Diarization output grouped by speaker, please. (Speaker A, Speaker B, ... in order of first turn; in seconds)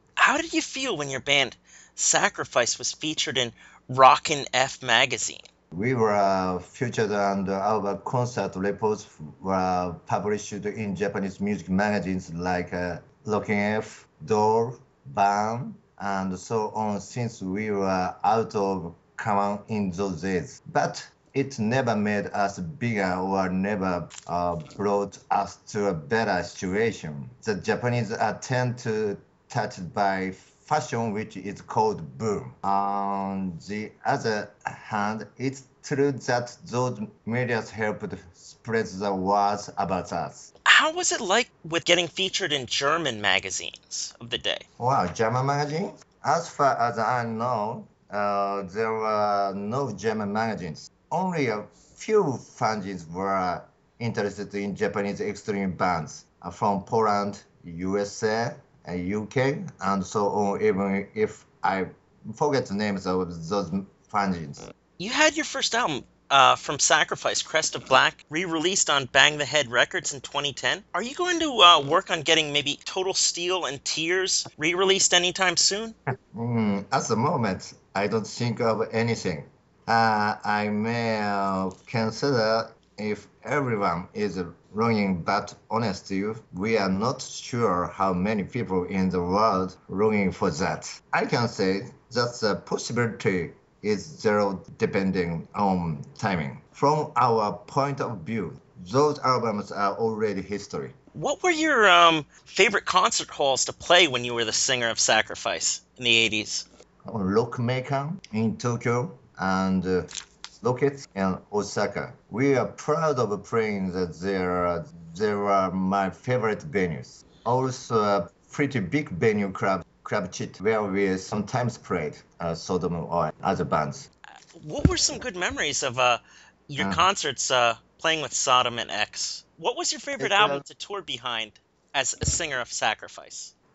Speaker A: 0.2-5.4, 40.6-44.6, 65.0-76.0, 101.1-106.6, 124.5-133.5
Speaker B: 5.7-40.5, 44.8-64.7, 76.3-100.9, 107.0-110.1, 110.6-124.1, 126.8-127.1, 130.2-130.6